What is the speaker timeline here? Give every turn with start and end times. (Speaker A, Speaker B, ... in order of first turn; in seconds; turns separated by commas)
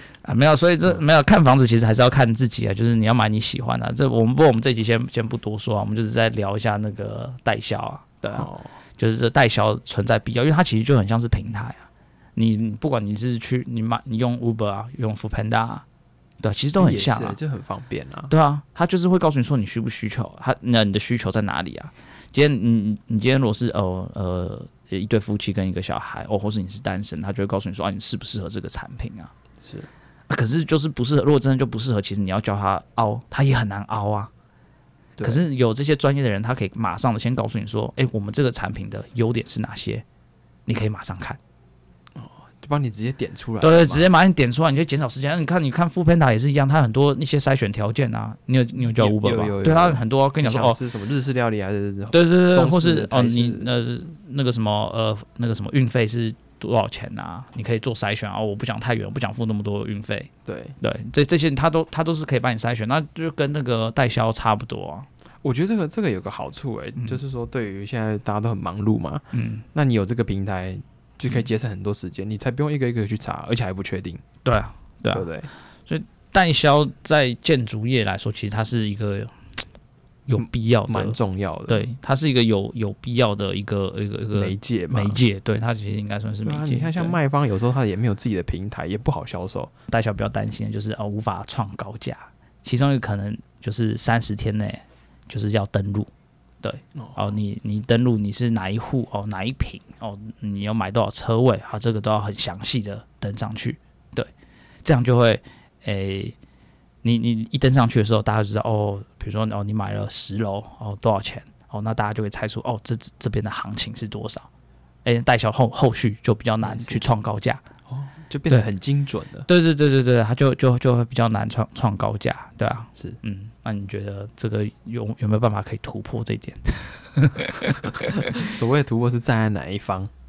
Speaker A: 0.2-15.8, Speaker B: 8.3-8.7, Speaker A: 16.4-17.4, Speaker B: 16.8-18.3, Speaker A: 18.3-29.3, Speaker B: 29.6-29.9, Speaker A: 30.3-34.3, Speaker B: 35.2-35.4, Speaker A: 35.2-40.0, Speaker A: 40.7-41.4, Speaker B: 42.1-44.1, Speaker A: 43.6-50.8, Speaker B: 48.9-53.7, Speaker A: 52.1-65.1, Speaker B: 60.5-60.8, Speaker B: 65.4-74.2, Speaker A: 69.3-69.7, Speaker A: 74.4-75.3, Speaker B: 75.1-75.5, Speaker A: 75.9-79.3, Speaker A: 80.3-81.2, Speaker B: 80.4-81.9, Speaker A: 81.7-87.2, Speaker B: 84.3-85.2, Speaker B: 86.4-89.7, Speaker A: 89.9-96.1, Speaker A: 96.6-104.3, Speaker A: 104.8-106.3, Speaker A: 107.0-114.5, Speaker A: 115.0-117.6, Speaker B: 116.6-117.0, Speaker B: 117.9-119.5, Speaker A: 119.5-128.3, Speaker B: 127.8-130.1